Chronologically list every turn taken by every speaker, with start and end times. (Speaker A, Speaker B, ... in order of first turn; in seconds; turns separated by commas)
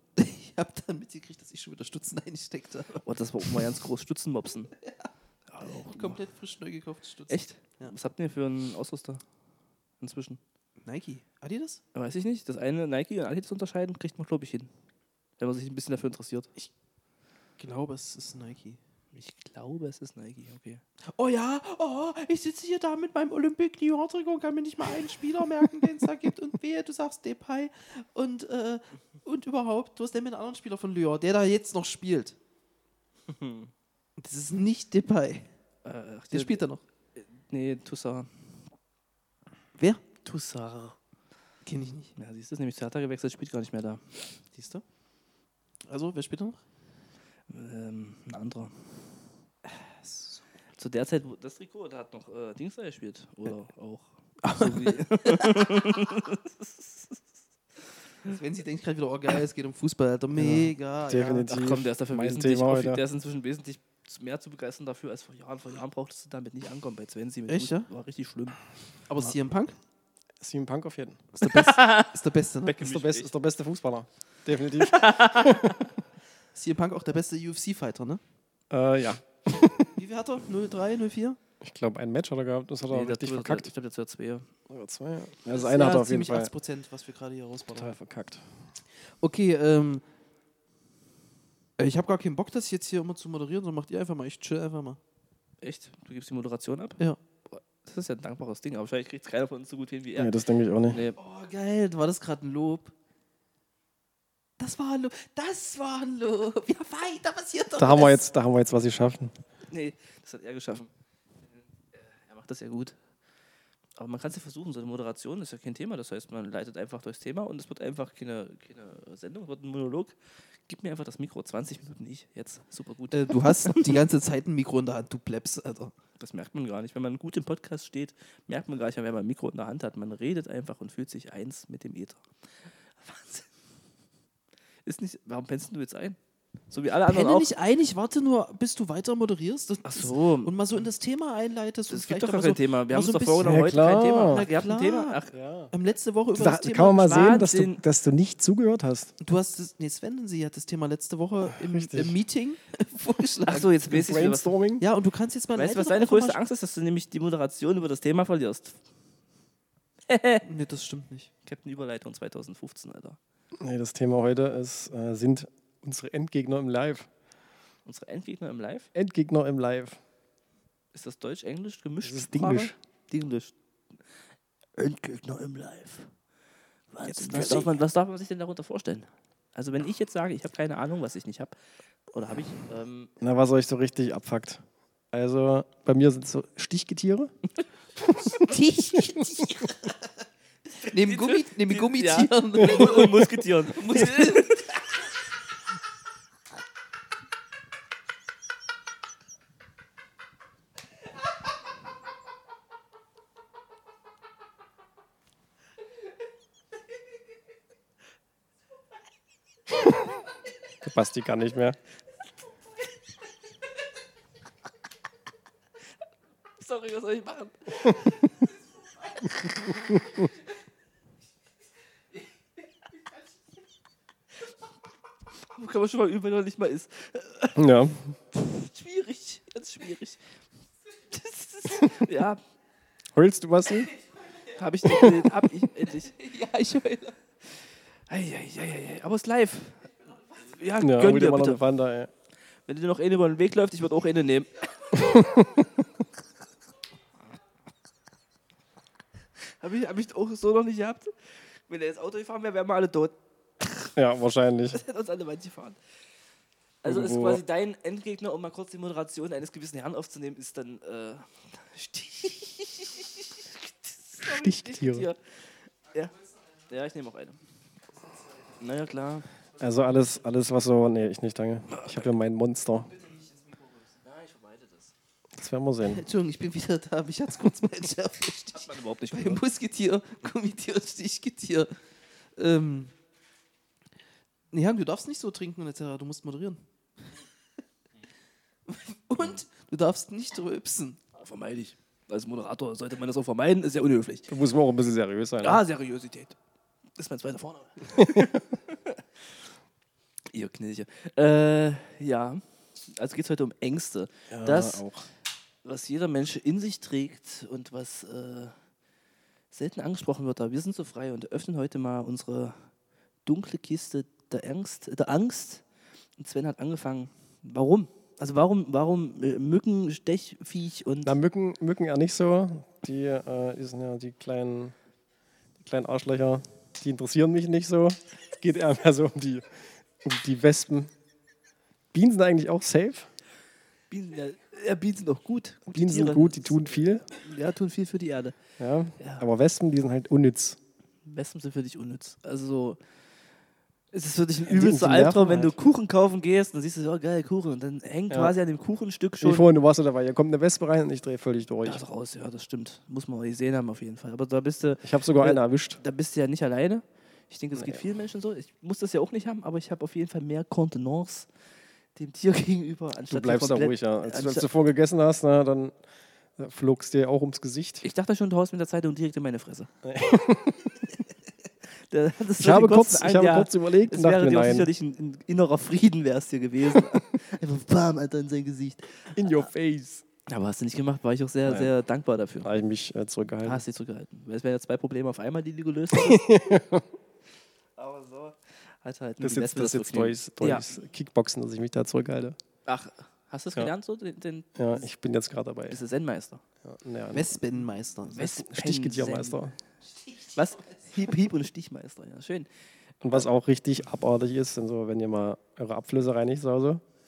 Speaker A: 0.2-3.6, Speaker B: 3.0-4.7, Speaker A: 4.8-5.1, Speaker B: 5.5-6.2, Speaker A: 5.7-8.0, Speaker B: 7.3-9.2, Speaker B: 10.0-10.4, Speaker A: 10.8-11.8, Speaker B: 11.9-14.7, Speaker B: 15.4-16.5, Speaker A: 17.6-18.8, Speaker B: 19.1-20.8, Speaker A: 21.1-32.4, Speaker B: 33.3-33.7, Speaker A: 34.2-35.5, Speaker B: 35.8-36.6, Speaker A: 36.3-36.8, Speaker B: 37.2-38.3, Speaker A: 39.8-40.0, Speaker B: 40.2-41.0, Speaker A: 41.7-42.1, Speaker B: 42.2-44.1, Speaker A: 44.5-44.8, Speaker A: 45.9-46.6, Speaker B: 47.5-49.1, Speaker A: 49.7-50.4, Speaker B: 50.8-57.2, Speaker A: 54.4-56.0, Speaker A: 58.2-61.5, Speaker C: 60.4-63.0, Speaker B: 61.5-68.6, Speaker A: 67.5-67.9, Speaker A: 69.1-69.8, Speaker C: 70.4-71.2, Speaker A: 71.3-72.9, Speaker B: 71.4-73.3, Speaker C: 72.8-75.9, Speaker B: 74.8-75.9, Speaker A: 76.5-78.2, Speaker C: 78.7-79.9, Speaker A: 80.0-81.4, Speaker C: 81.6-83.7, Speaker B: 82.9-84.5, Speaker C: 84.7-86.5, Speaker A: 85.5-87.9, Speaker C: 87.8-88.5, Speaker A: 89.2-90.0, Speaker A: 91.8-95.0, Speaker B: 95.6-100.3, Speaker C: 100.2-101.0, Speaker B: 100.9-101.2, Speaker A: 101.2-102.9, Speaker A: 104.6-108.2, Speaker C: 107.8-109.3, Speaker B: 109.7-110.9, Speaker B: 111.9-113.0, Speaker B: 114.0-120.2, Speaker B: 120.7-124.0, Speaker A: 123.1-125.9, Speaker B: 126.2-132.2, Speaker B: 133.0-133.5, Speaker B: 134.8-136.2, Speaker B: 136.7-137.5, Speaker A: 137.1-143.6, Speaker B: 139.8-140.5, Speaker B: 141.9-145.3, Speaker C: 143.4-144.4, Speaker A: 144.3-145.2, Speaker C: 145.3-145.7, Speaker A: 145.7-147.4, Speaker C: 146.3-149.1, Speaker B: 147.0-147.8, Speaker A: 149.2-153.7, Speaker C: 151.5-152.2, Speaker B: 153.5-154.6, Speaker C: 153.9-154.8, Speaker A: 154.8-156.4, Speaker B: 155.6-158.8, Speaker B: 160.1-160.5, Speaker A: 160.4-161.3, Speaker B: 161.4-163.2, Speaker C: 163.6-167.1, Speaker B: 167.9-168.9, Speaker C: 168.9-170.0, Speaker B: 170.9-173.5, Speaker C: 172.0-172.8, Speaker B: 174.8-176.1, Speaker B: 176.9-181.5, Speaker C: 177.1-177.7, Speaker B: 182.1-183.1, Speaker C: 183.2-187.3, Speaker C: 188.0-188.4, Speaker A: 188.3-190.0, Speaker B: 190.8-194.8, Speaker A: 190.8-194.6, Speaker C: 210.8-211.8, Speaker B: 216.6-218.2, Speaker C: 219.5-220.2, Speaker B: 225.5-227.6, Speaker C: 227.6-228.2, Speaker B: 228.3-230.2, Speaker B: 231.1-232.4, Speaker C: 233.1-233.9, Speaker B: 234.4-236.2, Speaker A: 236.2-237.2, Speaker B: 238.1-241.6, Speaker C: 240.8-242.1, Speaker B: 242.7-244.9, Speaker C: 244.9-245.7, Speaker B: 249.6-253.9, Speaker C: 254.0-254.8, Speaker B: 254.7-255.8, Speaker B: 256.8-266.1, Speaker C: 256.9-257.4, Speaker C: 264.2-265.1, Speaker B: 266.7-267.4, Speaker B: 268.6-269.3, Speaker C: 269.6-272.9, Speaker B: 271.7-272.0, Speaker B: 274.0-274.9, Speaker C: 275.4-276.0, Speaker A: 275.9-281.7, Speaker B: 278.5-279.4, Speaker A: 282.4-282.9, Speaker A: 284.5-286.6, Speaker A: 288.7-291.0, Speaker B: 291.1-294.3, Speaker C: 294.3-295.6, Speaker B: 295.4-296.4, Speaker B: 297.0-299.0, Speaker C: 297.9-298.4, Speaker B: 300.3-304.8, Speaker C: 304.3-305.1, Speaker B: 305.6-308.6, Speaker B: 309.5-312.7, Speaker B: 313.3-315.6, Speaker B: 316.2-321.1, Speaker C: 321.1-324.8, Speaker C: 325.6-330.9, Speaker C: 331.9-333.1, Speaker B: 333.9-338.4, Speaker C: 335.7-337.1, Speaker C: 338.6-340.6, Speaker B: 341.1-342.8, Speaker B: 343.9-349.4, Speaker C: 344.5-345.6, Speaker C: 349.2-351.8, Speaker B: 351.6-361.3, Speaker C: 354.8-355.8, Speaker C: 357.6-357.8, Speaker B: 362.0-364.5, Speaker C: 363.1-365.8, Speaker C: 366.4-367.9, Speaker B: 367.8-369.7, Speaker C: 369.8-370.9, Speaker B: 371.9-379.5, Speaker C: 372.4-374.7, Speaker C: 379.1-380.0, Speaker B: 380.3-382.5, Speaker C: 381.5-381.7, Speaker C: 382.4-383.6, Speaker B: 383.4-386.3, Speaker C: 385.9-386.9, Speaker B: 387.8-390.7, Speaker C: 389.2-392.4, Speaker B: 392.7-394.9, Speaker C: 394.6-395.8, Speaker B: 395.7-396.4, Speaker C: 396.6-397.4, Speaker A: 397.1-398.3, Speaker B: 398.1-399.4, Speaker C: 398.2-399.6, Speaker B: 400.3-402.5, Speaker C: 403.0-406.8